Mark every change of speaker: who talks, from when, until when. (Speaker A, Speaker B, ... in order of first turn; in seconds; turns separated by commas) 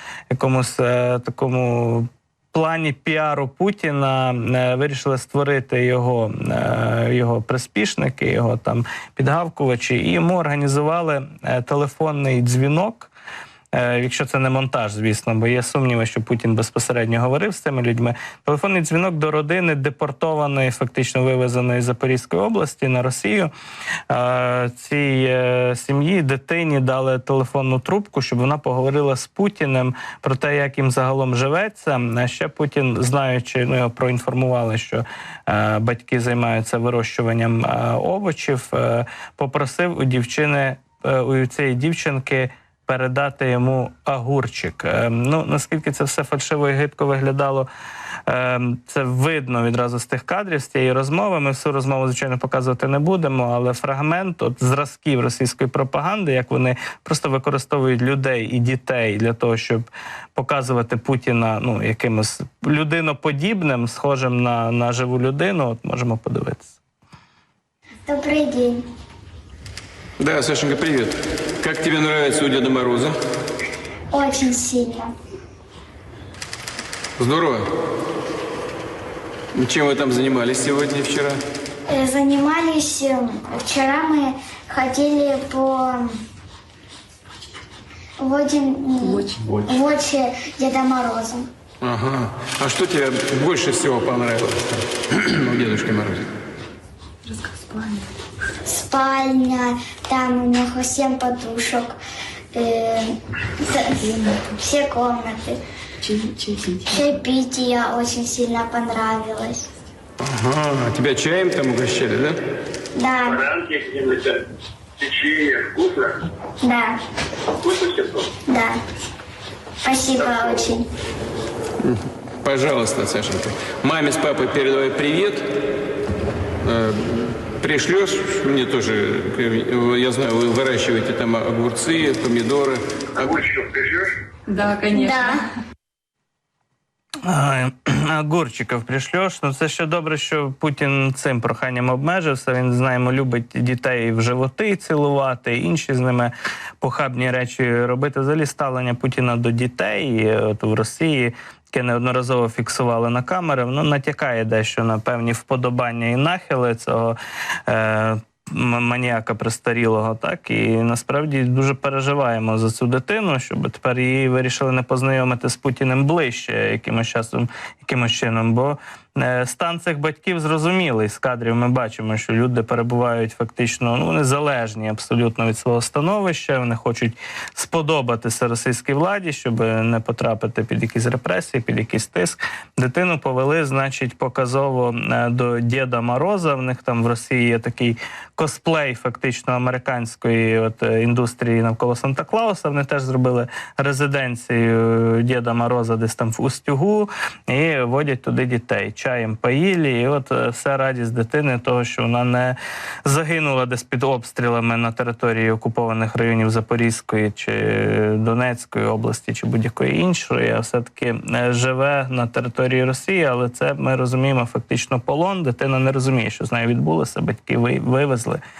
Speaker A: 0.3-13.1, Speaker A: 13.7-23.5, Speaker A: 24.1-47.7, Speaker A: 48.3-66.8, Speaker B: 68.1-68.9, Speaker C: 70.2-73.2, Speaker B: 74.1-75.1, Speaker C: 77.2-77.7, Speaker C: 79.5-81.4, Speaker B: 81.9-86.2, Speaker B: 88.2-91.5, Speaker C: 91.8-96.2, Speaker D: 97.3-98.1, Speaker B: 98.6-102.0, Speaker B: 102.5-105.6, Speaker D: 104.1-104.4, Speaker D: 106.0-106.8, Speaker B: 106.8-109.7, Speaker C: 110.2-112.4, Speaker B: 113.0-113.5, Speaker E: 113.3-114.5, Speaker E: 115.0-116.3, Speaker B: 116.6-117.0, Speaker E: 117.6-118.3, Speaker B: 118.5-118.8, Speaker B: 119.8-120.9, Speaker C: 121.8-125.5, Speaker C: 126.6-133.4, Speaker E: 133.3-134.2, Speaker D: 134.5-135.2, Speaker B: 134.9-135.4, Speaker A: 137.2-218.4